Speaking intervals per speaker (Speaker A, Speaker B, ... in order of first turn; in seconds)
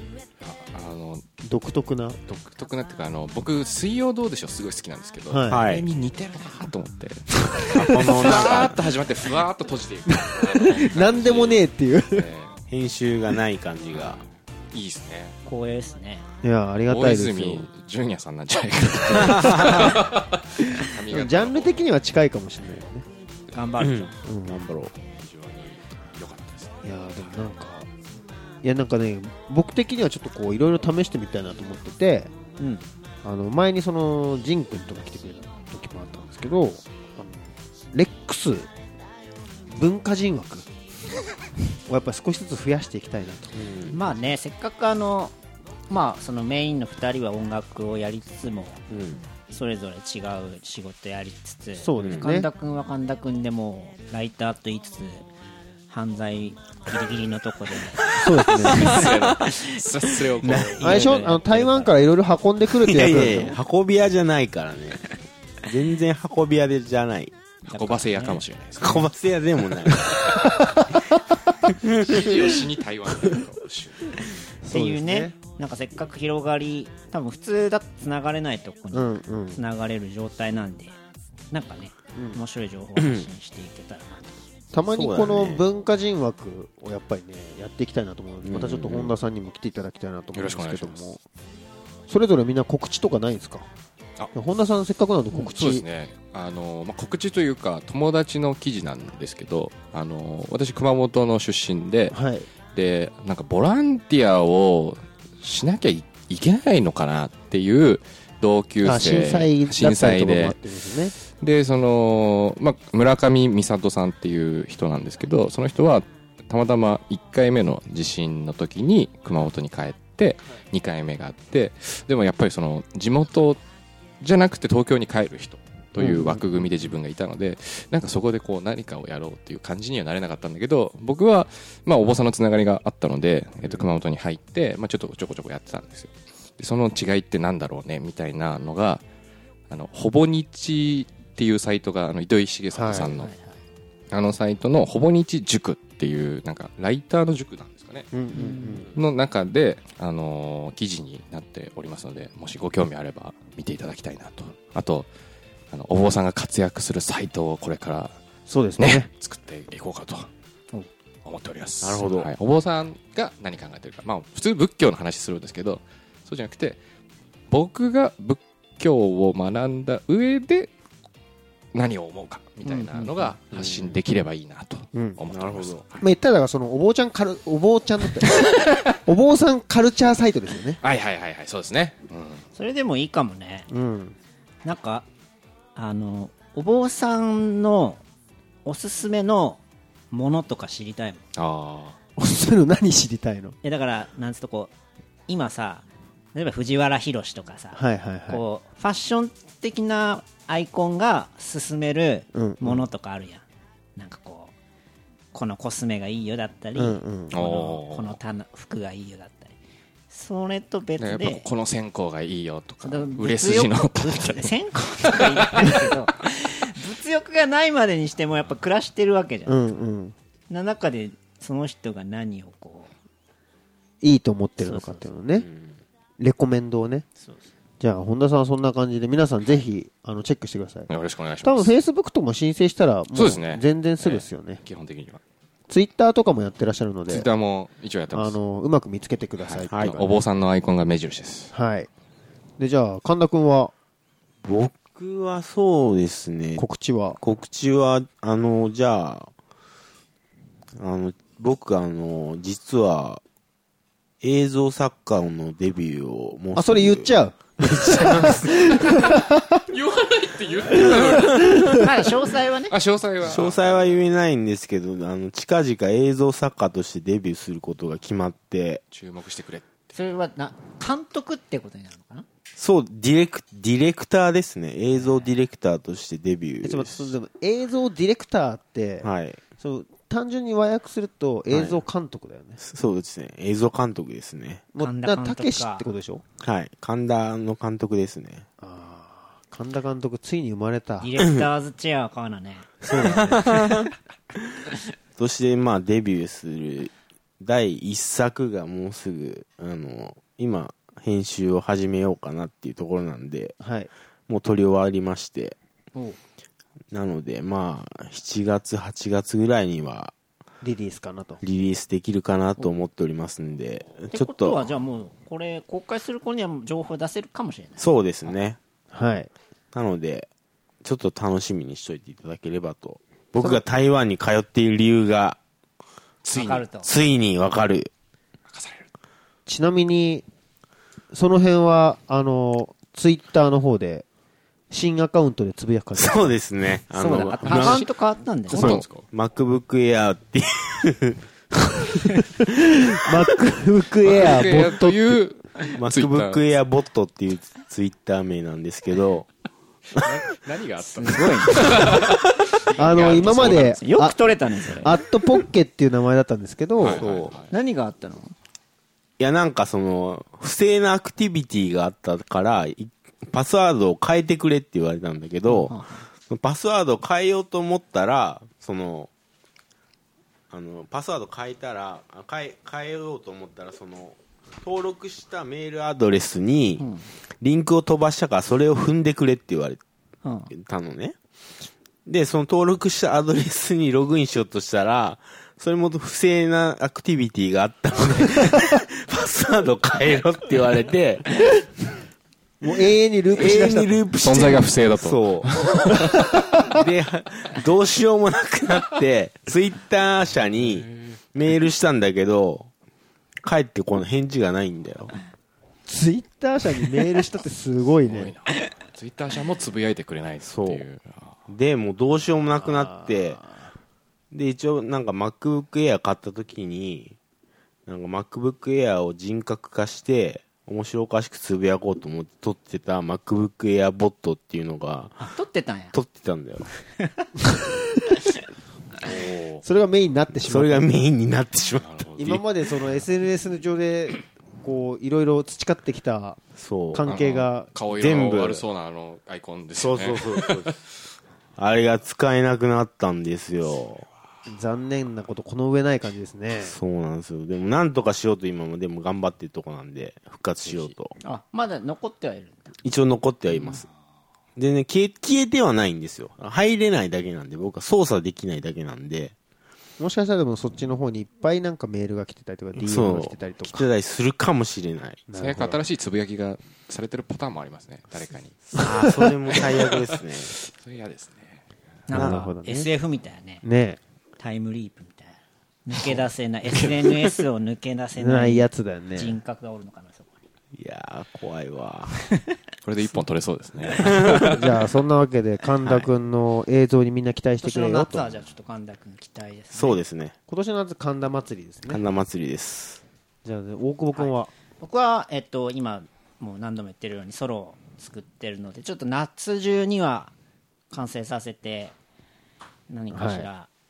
Speaker A: 0.4-1.2, 2.3-12.6, 14.7-15.4, 16.9-21.8, 25.1-26.8, 58.7-61.0, 67.7-69.1, 71.9-74.2, 90.3-91.0, 95.5-102.2, 102.7-110.6, 111.3-123.6, 124.2-139.0, 139.7-143.3, 144.1-148.1, 148.9-155.1, 155.7-158.2, 158.8-160.3, 161.2-166.8, 167.5-170.7, 171.7-176.1, 180.8-182.4, 191.4-192.0, 207.3-208.2, 211.0-215.9, 230.9-231.7, 233.1-235.2, 237.1-238.4, 239.4-241.5, 258.6-259.1, 259.7-261.9, 262.7-264.1, 268.9-269.9, 326.2-326.7, 328.5-328.9, 337.4-337.9, 338.5-339.1, 344.0-346.4, 350.0-353.8, 356.8-357.5, 394.2-396.1, 400.7-401.2, 408.0-411.4, 429.0-429.6, 431.8-432.4, 437.1-440.8, 450.6-450.9, 465.4-468.6, 470.5-471.6, 476.8-477.0, 482.8-484.6
Speaker B: 1.4-2.2, 5.3-5.6, 7.6-8.7, 10.1-12.2, 16.4-17.7, 19.5-19.9, 20.8-23.1, 24.2-24.8, 26.8-27.9, 28.6-32.3, 33.2-38.7, 39.7-40.7, 41.9-43.6, 51.8-52.5, 58.2-59.0, 60.8-63.6, 70.3-71.2, 74.6-75.3, 78.9-79.6, 82.2-82.4, 84.7-91.2, 92.1-93.7, 94.3-95.9, 102.1-102.5, 108.8-111.1, 126.0-126.4, 142.7-143.1, 148.1-148.9, 158.5-159.1, 174.9-175.2, 176.0-180.8, 183.7-184.2, 192.2-193.6, 197.7-198.4, 202.3-202.8, 206.8-207.3, 219.5-220.2, 224.0-225.5, 226.2-227.1, 227.8-230.9, 231.4-234.6, 235.7-237.3, 238.1-240.2, 241.5-241.9, 242.6-243.7, 246.6-247.2, 256.6-259.6, 260.7-261.8, 276.6-282.6, 284.7-286.2, 288.6-291.1, 292.8-293.5, 303.6-303.9, 310.6-311.4, 318.9-319.3, 329.5-330.2, 331.1-334.1, 334.7-336.4, 342.5-345.2, 352.8-354.2, 354.8-357.0, 392.6-394.1, 396.0-396.7, 405.9-408.3, 412.6-413.7, 429.6-430.9, 432.2-436.4, 436.9-437.7, 444.5-446.8, 460.0-463.9, 465.3-465.8, 468.9-469.3, 472.1-472.9, 473.6-474.0, 478.2-479.4, 484.4-488.3, 490.5-492.0, 493.4-494.5, 503.1-503.5
Speaker C: 5.5-5.9, 7.7-8.8, 12.7-14.2, 19.2-19.9, 23.8-24.9, 43.5-44.0, 48.9-49.2, 59.0-59.2, 60.4-60.8, 62.8-65.0, 65.6-67.3, 68.8-70.3, 71.8-72.3, 83.0-83.2, 84.9-85.7, 88.5-89.2, 161.8-162.3, 175.3-175.8, 225.4-225.8, 244.4-246.6, 247.2-249.3, 250.8-253.2, 254.2-258.8, 263.2-268.8, 272.6-277.1, 279.0-279.4, 281.5-281.8, 282.6-284.6, 286.4-288.5, 293.0-293.9, 295.2-303.6, 304.3-305.6, 306.9-310.1, 311.4-314.7, 317.8-318.6, 319.7-320.3, 320.8-325.4, 326.9-327.9, 336.0-337.9, 338.5-341.2, 345.8-349.3, 356.8-357.3, 359.2-365.8, 366.3-369.1, 370.5-376.9, 377.4-379.8, 380.5-381.1, 382.1-391.3, 393.3-395.5, 396.7-402.7, 403.4-405.1, 410.4-410.9, 411.5-413.4, 414.3-417.2, 417.9-425.2, 425.9-426.7, 430.5-432.4, 436.6-437.1, 437.9-438.6, 439.8-440.8, 441.6-444.1, 446.6-451.1, 452.8-453.9, 454.6-459.3, 462.8-465.3, 468.7-470.6, 472.1-472.4, 480.8-482.2, 483.9-484.6, 489.7-490.4, 491.9-493.0
Speaker D: 15.5-16.2, 23.5-24.1, 32.6-32.8, 43.9-45.4, 45.9-48.8, 49.5-55.3, 55.9-62.0, 67.7-68.4, 74.7-81.0, 81.5-84.4, 143.1-143.5, 148.3-148.8, 172.7-173.3, 182.6-183.7, 184.7-185.1, 185.8-188.0, 188.7-191.2, 193.6-194.7, 195.3-203.4, 204.0-204.5, 205.3-209.6, 210.1-211.5, 212.8-219.7, 220.5-222.9, 224.6-225.1, 227.2-227.5, 261.7-262.8, 269.9-272.2, 284.8-285.8, 291.0-293.3, 314.1-317.9, 326.3-326.9, 336.9-338.8, 350.8-351.8, 352.9-354.9, 357.5-358.3, 365.5-366.1, 376.8-377.1, 380.2-380.5, 425.2-425.9, 451.2-452.7, 472.1-473.6, 474.4-480.3, 487.6-490.0, 494.1-500.3, 500.9-501.9, 502.9-503.7